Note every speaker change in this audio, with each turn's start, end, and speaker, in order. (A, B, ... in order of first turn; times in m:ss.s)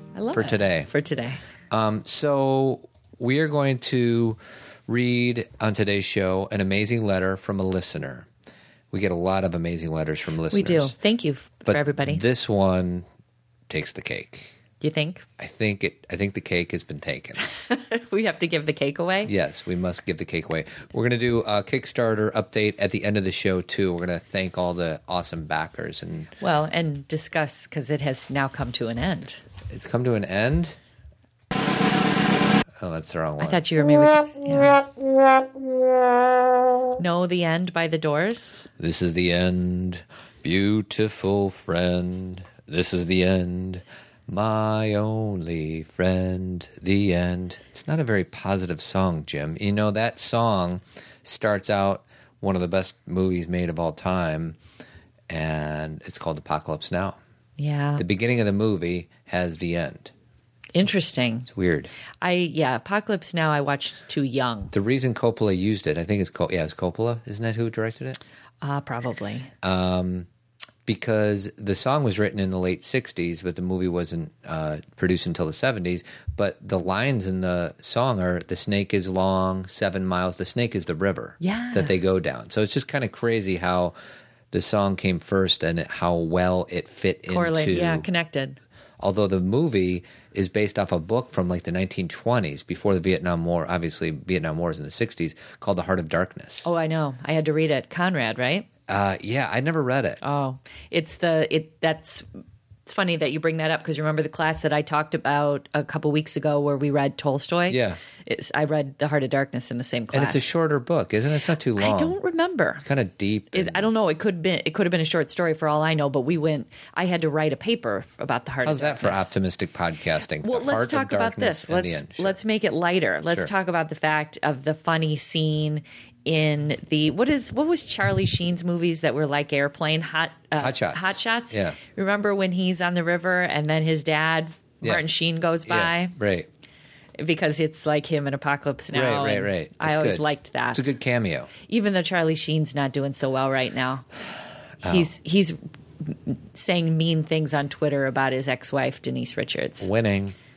0:00.2-0:01.4 A
0:00.3-0:00.9 B
0:01.7-0:08.3 B
0:08.9-0:10.9 B
0:10.5-0:12.2 A
0:11.7-0:13.0 B
0:13.7-0:14.6 B
0:14.8-0:15.2 A
0:15.4-0:17.4 B
0:17.4-0:19.3 A
0:19.3-0:26.3 B
0:26.4-0:29.4 A
0:29.7-0:30.8 B
0:32.8-0:33.6 B
0:33.4-0:34.8 A
0:37.0-0:38.7 A
0:38.8-0:54.6 B
0:55.3-0:57.2 B
0:57.6-0:58.0 A
0:58.0-1:00.1 B
1:00.7-1:01.5 A
1:01.5-1:01.9 B
1:02.2-1:04.7 A
1:04.7-1:08.2 B
1:08.6-1:09.5 A
1:09.6-1:10.3 B
1:10.8-1:23.9 B
1:21.4-1:21.9 A
1:24.5-1:28.1 B
1:27.3-1:28.6 A
1:29.0-1:36.7 B
1:36.6-1:38.7 A
1:38.9-1:40.2 B
1:40.2-1:42.2 A
1:42.8-1:50.5 A
1:47.7-1:48.0 B
1:50.1-1:52.2 B
1:51.8-1:52.8 A
1:52.8-1:53.9 B
1:53.5-1:59.3 A
1:58.6-2:02.4 B
2:00.4-2:16.2 A
2:10.6-2:11.8 B
2:15.7-2:16.5 B
2:17.2-2:20.8 A
2:18.9-2:21.5 B
2:21.7-2:24.1 A
2:24.8-2:25.1 B
2:24.8-2:29.9 A
2:29.8-2:30.4 B